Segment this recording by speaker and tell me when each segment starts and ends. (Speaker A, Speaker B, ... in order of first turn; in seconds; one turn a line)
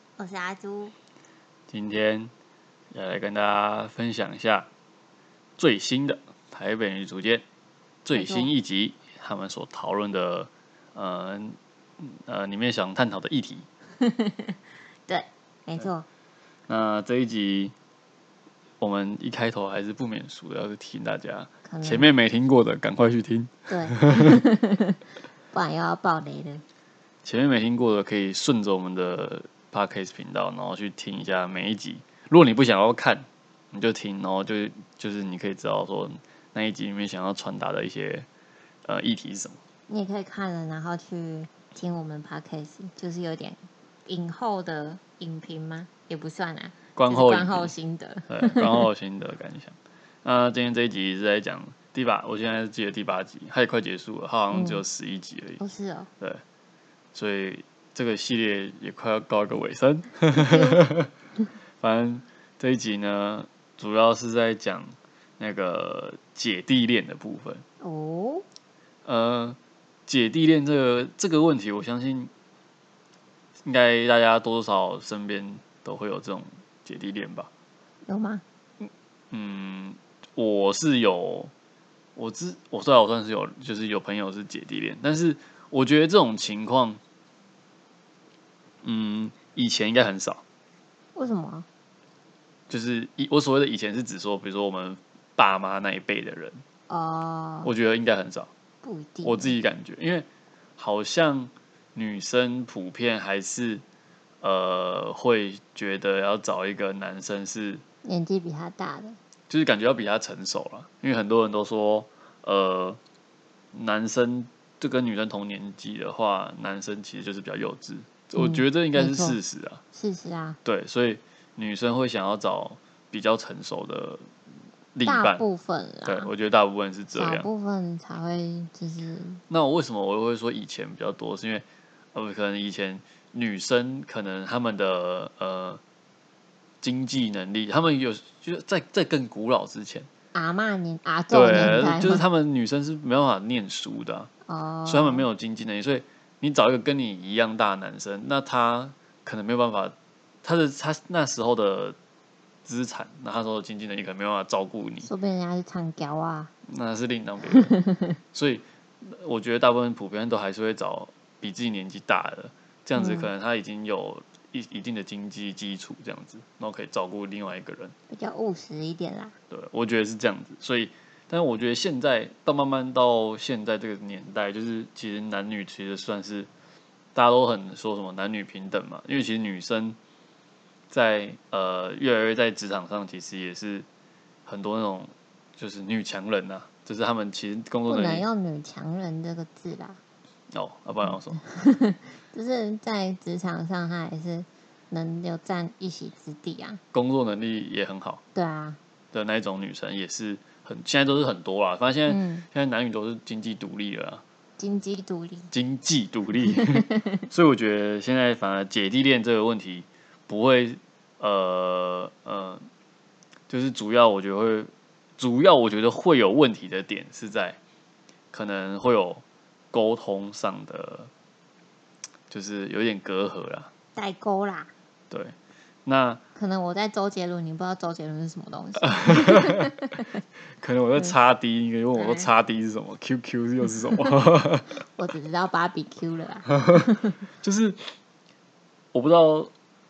Speaker A: 0.2-0.9
Speaker B: 1.7-2.3
Speaker B: 2.9-4.7
Speaker B: 5.6-7.4
Speaker B: 8.0-13.7
Speaker A: 8.1-8.5
Speaker A: 14.0-16.1
Speaker B: 16.7-17.7
Speaker B: 18.8-24.4
Speaker A: 21.6-22.1
Speaker A: 23.7-25.0
Speaker A: 25.5-26.6
Speaker B: 27.2-38.2
Speaker B: 38.9-39.6
Speaker A: 39.9-48.9
Speaker B: 46.9-47.7
Speaker B: 48.3-55.6
Speaker A: 54.5-54.8
Speaker A: 55.6-56.1
Speaker B: 57.1-61.1
Speaker A: 60.3-60.8
Speaker B: 61.8-67.6
Speaker A: 67.8-68.5
Speaker B: 69.0-72.3
Speaker B: 73.7-77.5
Speaker A: 78.0-78.4
Speaker B: 78.8-81.5
Speaker B: 82.2-87.0
Speaker B: 88.8-90.4
Speaker A: 91.1-91.7
Speaker B: 92.7-96.6
Speaker A: 96.9-97.7
Speaker B: 97.6-98.5
Speaker A: 98.8-99.6
Speaker B: 99.2-100.3
Speaker B: 100.8-103.8
Speaker B: 104.4-107.8
Speaker A: 108.0-109.2
Speaker B: 109.5-113.0
Speaker B: 113.7-119.8
Speaker A: 118.4-119.4
Speaker A: 119.9-120.6
Speaker B: 120.6-124.2
Speaker B: 124.9-125.4
Speaker A: 125.0-126.3
Speaker B: 126.0-127.5
Speaker A: 127.1-129.4
Speaker B: 129.5-135.8
Speaker B: 136.8-140.1
Speaker A: 140.3-142.2
Speaker B: 141.3-144.3
Speaker A: 144.4-145.2
Speaker B: 144.8-152.0
Speaker B: 152.7-155.1
Speaker A: 155.0-156.5
Speaker B: 156.7-157.7
Speaker A: 157.6-158.1
Speaker B: 158.3-167.9
Speaker A: 162.9-163.3
Speaker A: 168.1-169.3
Speaker B: 169.5-176.5
Speaker B: 177.1-180.0
Speaker B: 180.9-183.8
Speaker B: 184.4-188.2
Speaker A: 187.9-190.0
Speaker B: 190.5-191.4
Speaker A: 191.0-196.8
Speaker B: 196.9-198.2
Speaker A: 198.3-198.8
Speaker B: 199.1-204.2
Speaker A: 202.1-202.4
Speaker A: 204.6-205.5
Speaker B: 205.5-212.7
Speaker A: 206.8-207.1
Speaker B: 213.5-217.6
Speaker B: 218.3-221.1
Speaker B: 222.3-223.7
Speaker A: 223.9-224.7
Speaker B: 225.8-226.2
Speaker A: 226.3-229.9
Speaker B: 229.1-229.6
Speaker B: 230.6-234.8
Speaker A: 231.9-232.3
Speaker A: 234.9-237.2
Speaker B: 237.4-237.9
Speaker B: 238.9-239.5